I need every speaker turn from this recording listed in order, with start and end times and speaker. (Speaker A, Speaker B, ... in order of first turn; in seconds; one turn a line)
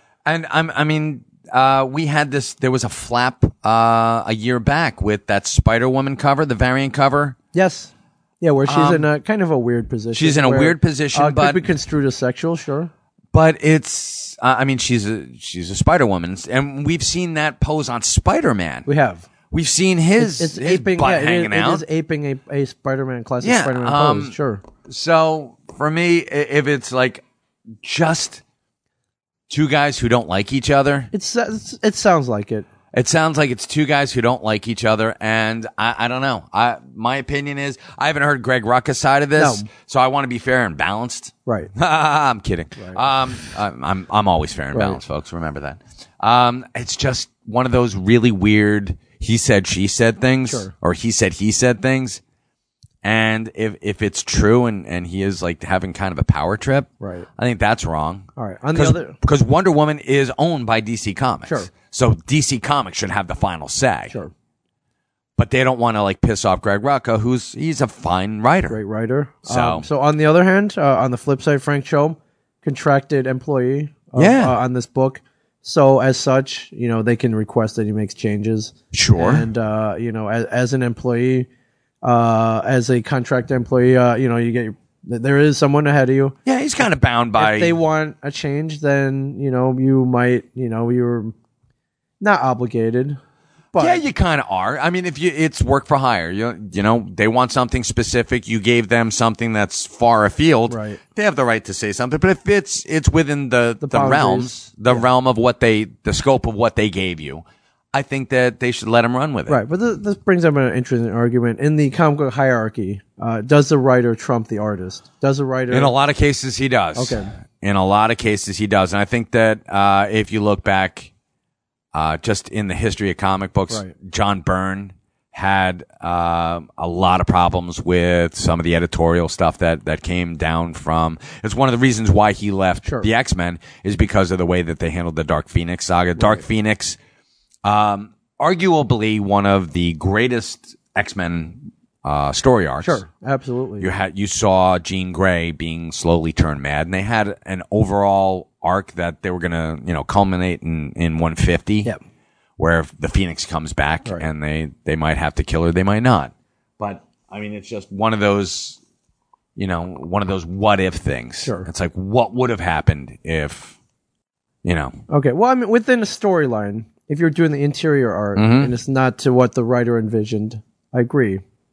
Speaker A: 0.2-7.3
Speaker B: 7.5-12.9
Speaker A: 8.7-9.1
Speaker A: 10.1-11.7
Speaker A: 13.3-18.9
Speaker B: 18.9-19.3
Speaker A: 19.5-21.8
Speaker B: 20.2-24.6
Speaker A: 23.4-27.2
Speaker A: 27.8-28.4
Speaker A: 29.5-31.1
Speaker B: 31.1-32.7
Speaker A: 32.9-52.2
Speaker B: 39.4-39.7
Speaker B: 41.5-41.7
Speaker B: 44.7-45.0
Speaker B: 50.5-50.7
Speaker A: 53.0-64.1
Speaker B: 57.0-57.3
Speaker B: 58.4-59.1
Speaker B: 61.4-61.7
Speaker A: 65.4-68.8
Speaker B: 68.7-81.5
Speaker A: 69.5-69.8
Speaker A: 74.1-74.5
Speaker A: 78.9-79.5
Speaker B: 82.0-86.3
Speaker A: 86.4-87.8
Speaker B: 87.4-91.3
Speaker B: 92.2-93.2
Speaker B: 93.7-94.0
Speaker A: 93.8-109.6
Speaker B: 100.7-101.0
Speaker B: 103.8-105.0
Speaker B: 109.5-115.9
Speaker A: 115.7-121.1
Speaker B: 116.9-117.3
Speaker A: 121.9-137.0
Speaker B: 136.2-136.4
Speaker A: 137.6-143.0
Speaker B: 142.8-143.9
Speaker A: 143.8-151.9
Speaker A: 152.6-158.8
Speaker A: 159.6-163.8
Speaker B: 161.4-161.7
Speaker A: 164.6-164.9
Speaker B: 165.1-171.4
Speaker A: 168.3-168.7